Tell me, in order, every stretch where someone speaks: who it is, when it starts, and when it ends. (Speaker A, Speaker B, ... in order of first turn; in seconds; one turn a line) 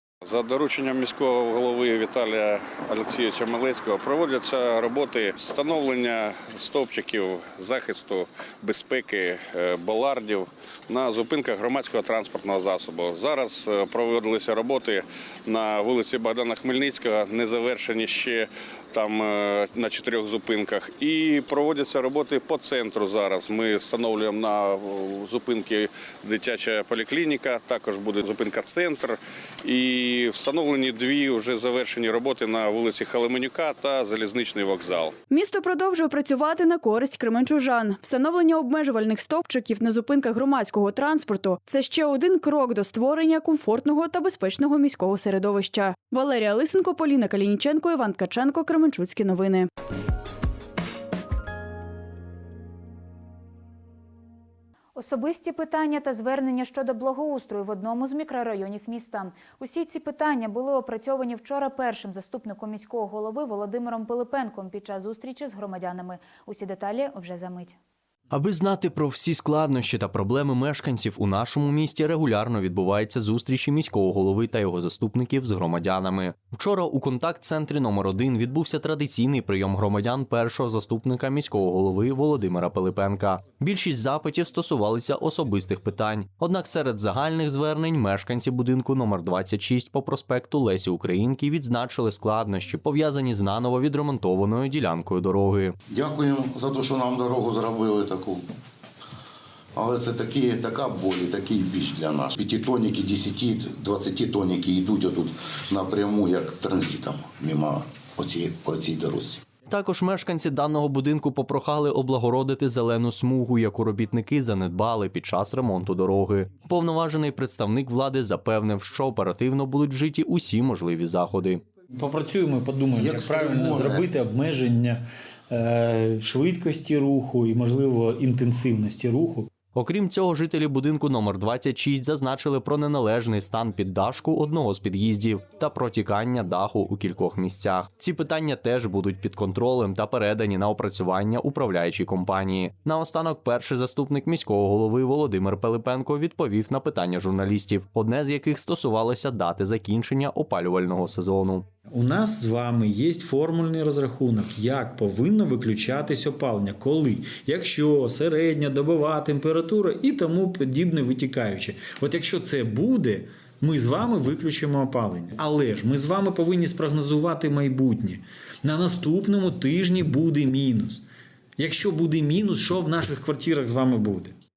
Speaker A: 0.2-35.1
Speaker B: 35.3-49.7
Speaker C: 54.9-67.8
Speaker D: 68.3-95.8
Speaker E: 95.9-98.4
Speaker E: 99.8-109.4
Speaker D: 109.7-121.6
Speaker F: 121.9-129.6
Speaker E: 122.9-124.0
Speaker D: 129.7-151.7
Speaker F: 151.8-171.0
Speaker F: 171.6-174.3